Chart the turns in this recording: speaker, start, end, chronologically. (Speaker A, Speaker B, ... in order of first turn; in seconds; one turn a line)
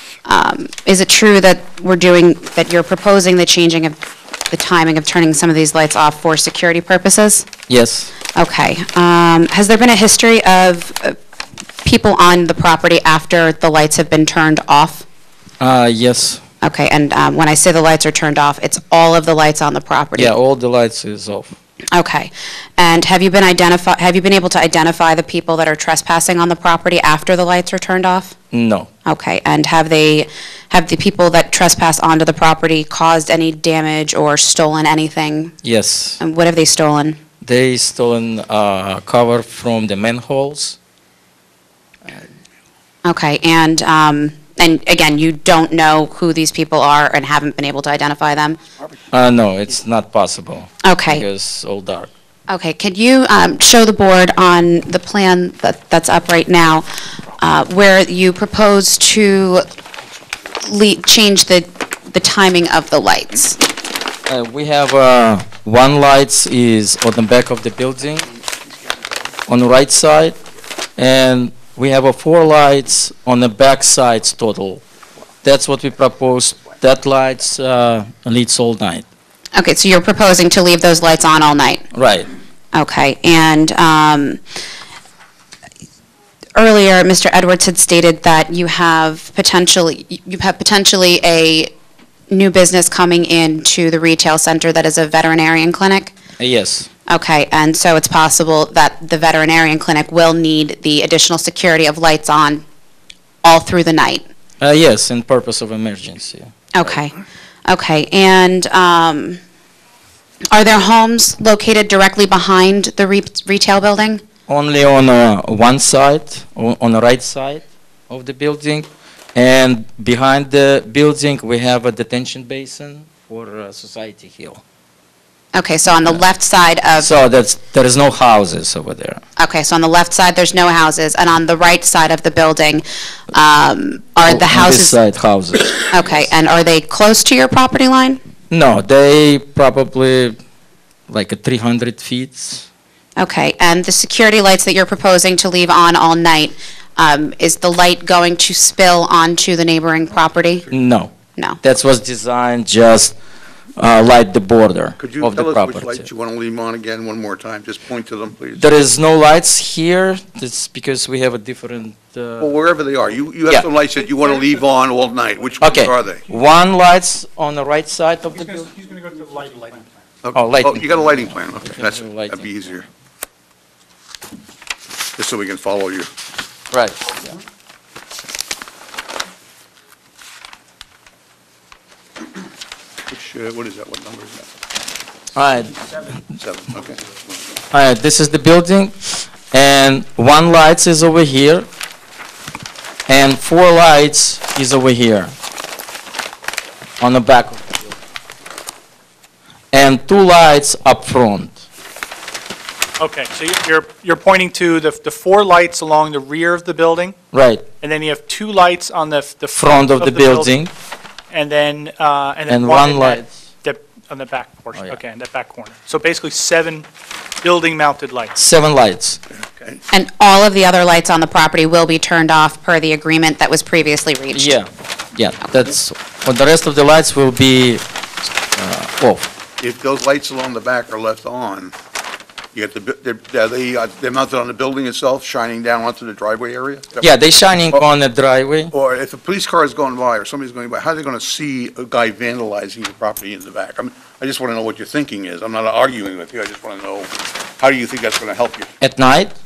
Speaker A: 0.2-7.5
Speaker B: 7.7-8.1
Speaker A: 8.3-11.2
Speaker A: 11.8-15.1
Speaker B: 15.6-16.4
Speaker A: 16.6-20.3
Speaker B: 20.1-21.5
Speaker A: 21.9-28.3
Speaker B: 28.5-28.9
Speaker A: 29.1-35.5
Speaker B: 35.6-36.2
Speaker A: 36.2-37.2
Speaker B: 37.4-40.8
Speaker A: 43.0-48.6
Speaker B: 49.1-52.1
Speaker A: 50.8-51.2
Speaker A: 52.5-56.9
Speaker A: 57.4-59.6
Speaker A: 60.6-63.6
Speaker B: 64.3-68.3
Speaker B: 69.5-70.4
Speaker B: 71.0-74.8
Speaker B: 75.4-79.0
Speaker A: 79.5-81.8
Speaker B: 81.9-82.3
Speaker A: 82.7-84.4
Speaker A: 86.5-91.7
Speaker A: 92.3-96.1
Speaker B: 96.4-96.9
Speaker A: 97.1-102.6
Speaker A: 103.4-104.3
Speaker B: 104.6-107.0
Speaker A: 106.7-107.1
Speaker A: 107.7-109.4
Speaker A: 110.5-114.2
Speaker B: 114.5-124.6
Speaker A: 125.5-127.1
Speaker B: 127.0-129.2
Speaker A: 129.4-135.0
Speaker B: 134.2-135.8
Speaker A: 135.8-138.2
Speaker B: 138.5-140.4
Speaker B: 141.1-142.7
Speaker A: 143.2-150.7
Speaker B: 150.7-153.1
Speaker B: 153.8-156.1
Speaker C: 155.0-158.6
Speaker B: 158.6-162.5
Speaker C: 162.4-166.2
Speaker B: 165.6-168.7
Speaker D: 168.4-169.9
Speaker C: 170.2-172.9
Speaker B: 170.3-172.8
Speaker C: 175.2-176.1
Speaker B: 176.7-177.2
Speaker C: 183.1-184.5
Speaker B: 185.3-185.8
Speaker C: 186.3-187.2
Speaker B: 187.7-191.7
Speaker B: 193.1-195.3
Speaker B: 197.0-197.9
Speaker B: 199.7-201.6
Speaker D: 203.0-207.1
Speaker B: 207.3-207.7
Speaker D: 207.8-210.5
Speaker B: 209.6-210.7
Speaker D: 211.3-216.9
Speaker B: 212.5-213.2
Speaker B: 214.7-215.0
Speaker D: 217.4-218.3
Speaker B: 218.3-219.2
Speaker C: 219.3-219.8
Speaker A: 219.9-224.5
Speaker B: 224.3-227.8
Speaker B: 228.5-229.3
Speaker C: 229.6-231.7
Speaker C: 232.5-237.1
Speaker B: 237.0-238.7
Speaker C: 238.7-248.7
Speaker B: 248.8-249.3